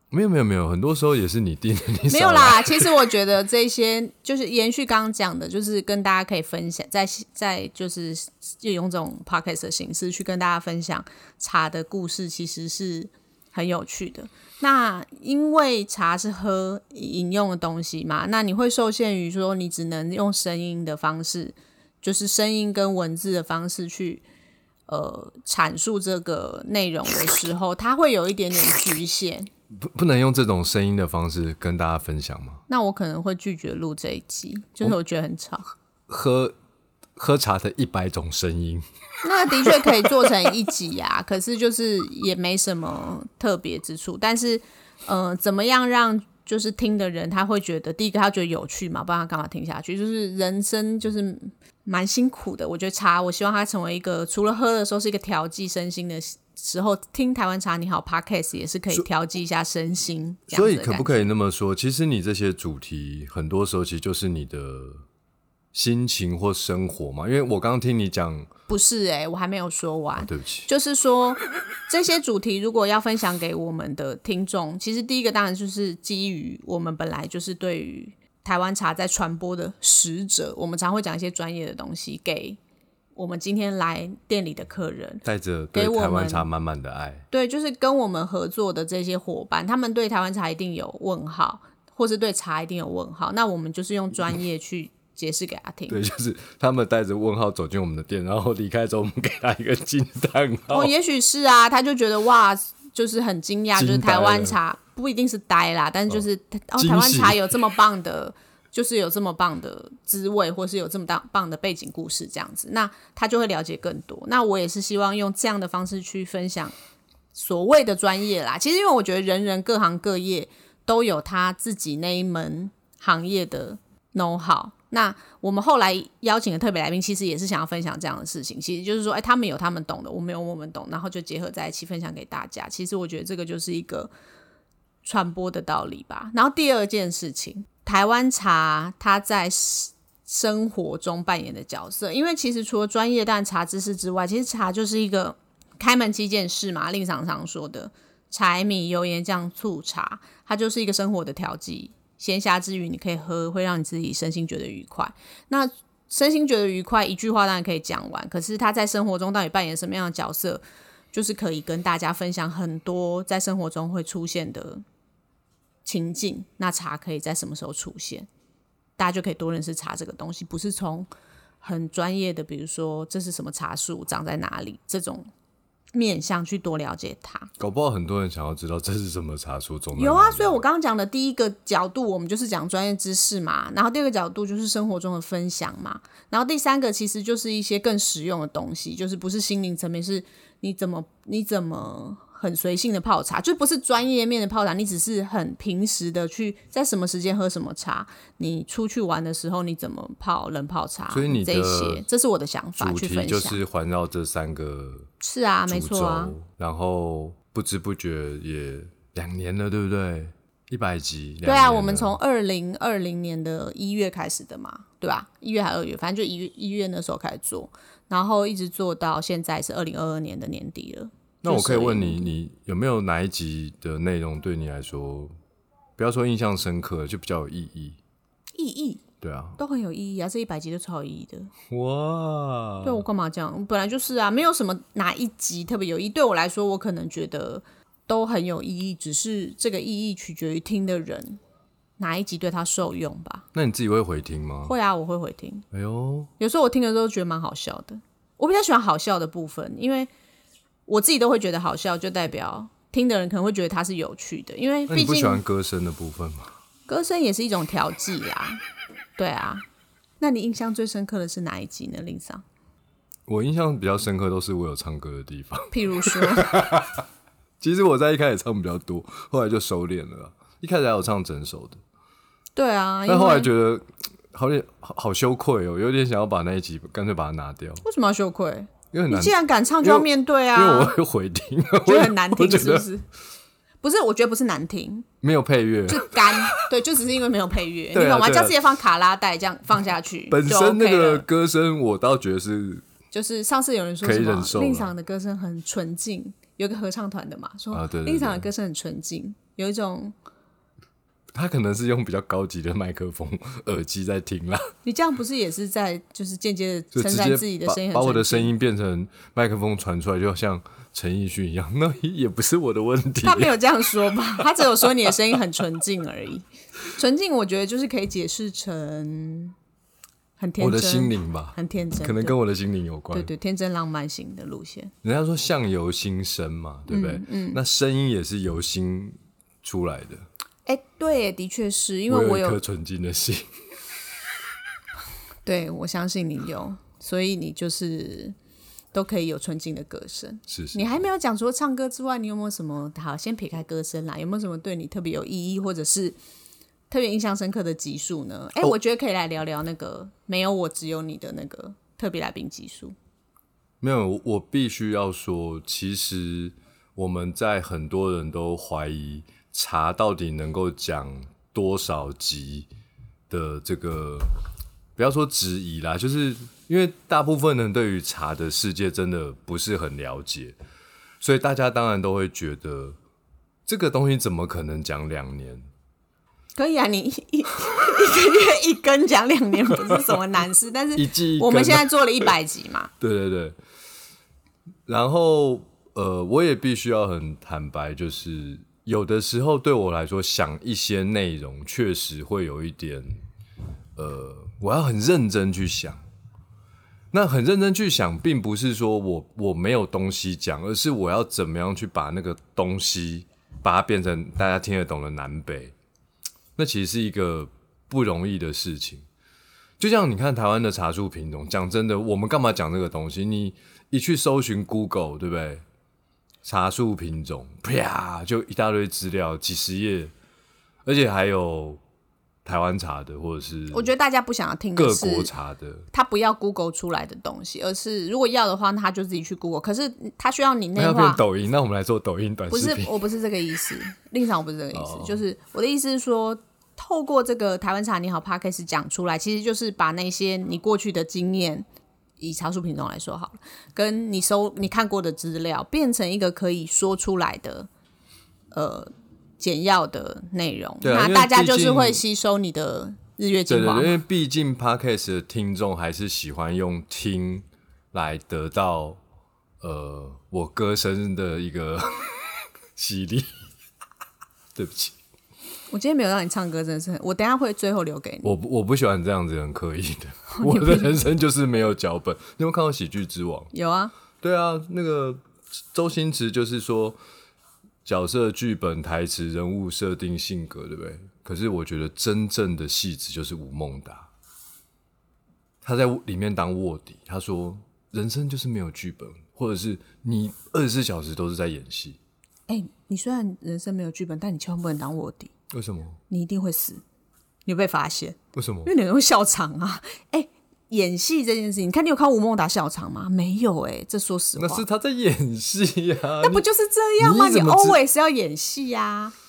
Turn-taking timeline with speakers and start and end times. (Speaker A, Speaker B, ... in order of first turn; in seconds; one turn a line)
Speaker A: 0.1-3.0
Speaker B: 2.1-24.2
Speaker B: 24.9-29.5
Speaker A: 29.8-32.6
Speaker B: 32.7-35.7
Speaker A: 36.1-36.5
Speaker A: 37.2-38.8
Speaker B: 39.2-61.3
Speaker A: 60.5-65.0
Speaker A: 65.7-68.5
Speaker B: 68.7-82.6
Speaker A: 70.2-70.7
Speaker B: 83.2-86.5
Speaker A: 85.2-87.3
Speaker B: 87.3-96.0
Speaker A: 95.9-100.9
Speaker B: 100.7-116.7
Speaker A: 103.7-104.6
Speaker A: 106.8-107.6
Speaker B: 117.3-134.1
Speaker B: 135.0-160.6
Speaker B: 161.1-164.8
Speaker B: 165.8-168.3
Speaker B: 169.0-171.1
Speaker B: 171.6-175.3
Speaker B: 175.9-177.5
Speaker A: 177.6-180.6
Speaker B: 180.0-203.6
Speaker A: 201.1-202.1
Speaker A: 202.8-205.1
Speaker B: 205.2-206.3
Speaker A: 205.7-212.2
Speaker B: 211.4-222.3
Speaker A: 221.4-225.3
Speaker A: 226.0-228.0
Speaker B: 228.6-229.0
Speaker A: 229.2-229.6
Speaker B: 229.6-231.5
Speaker A: 231.7-233.1
Speaker B: 232.8-241.4
Speaker B: 242.0-243.5
Speaker A: 243.5-244.8
Speaker B: 244.7-245.7
Speaker A: 245.7-246.3
Speaker B: 246.4-250.1
Speaker B: 250.9-255.4
Speaker A: 254.9-256.5
Speaker B: 256.9-258.6
Speaker B: 259.2-259.6
Speaker B: 260.2-262.4
Speaker A: 263.3-267.0
Speaker B: 265.7-266.5
Speaker A: 267.6-271.8
Speaker B: 272.6-273.5
Speaker A: 273.1-277.8
Speaker B: 277.8-280.9
Speaker A: 278.9-282.9
Speaker B: 281.8-283.1
Speaker B: 283.8-285.1
Speaker A: 285.2-286.6
Speaker B: 285.9-291.3
Speaker A: 287.9-288.6
Speaker A: 290.3-292.8
Speaker B: 293.1-300.1
Speaker A: 294.0-294.9
Speaker A: 297.7-298.5
Speaker A: 301.3-304.7
Speaker B: 304.8-308.5
Speaker A: 306.9-313.6
Speaker B: 313.2-319.6
Speaker A: 314.1-315.1
Speaker B: 320.4-322.4
Speaker A: 320.6-323.3
Speaker B: 323.1-324.9
Speaker A: 325.0-330.2
Speaker B: 326.9-327.6
Speaker B: 330.7-332.6
Speaker A: 332.1-333.5
Speaker B: 335.4-338.4
Speaker B: 338.9-346.2
Speaker A: 340.5-340.9
Speaker B: 346.9-352.9
Speaker A: 353.8-362.7
Speaker A: 363.3-364.3
Speaker A: 365.0-370.6
Speaker A: 371.2-373.0
Speaker A: 373.7-375.6
Speaker B: 376.6-382.9
Speaker A: 380.9-382.3
Speaker A: 383.0-383.6
Speaker A: 384.9-393.2
Speaker A: 394.0-396.0
Speaker A: 397.1-405.7
Speaker A: 406.6-409.1
Speaker A: 409.8-415.6
Speaker A: 416.4-420.1
Speaker A: 420.9-421.8
Speaker A: 422.4-423.9
Speaker B: 423.7-425.3
Speaker A: 424.8-425.9
Speaker B: 425.9-431.2
Speaker A: 430.8-432.9
Speaker B: 432.5-441.7
Speaker A: 434.7-435.2
Speaker B: 442.2-447.7
Speaker B: 448.5-454.0
Speaker A: 450.8-452.0
Speaker A: 453.5-459.0
Speaker A: 459.6-463.3
Speaker A: 464.6-465.0
Speaker B: 465.7-468.3
Speaker A: 468.2-473.5
Speaker B: 470.3-471.0
Speaker B: 473.5-473.9
Speaker A: 474.2-475.2
Speaker A: 475.7-477.0
Speaker A: 477.9-484.1
Speaker A: 485.6-492.0
Speaker B: 492.5-495.3
Speaker A: 495.5-496.0
Speaker B: 496.1-496.8
Speaker B: 497.5-504.6
Speaker A: 498.4-498.7
Speaker A: 504.4-506.4
Speaker B: 506.2-509.1
Speaker A: 507.0-507.8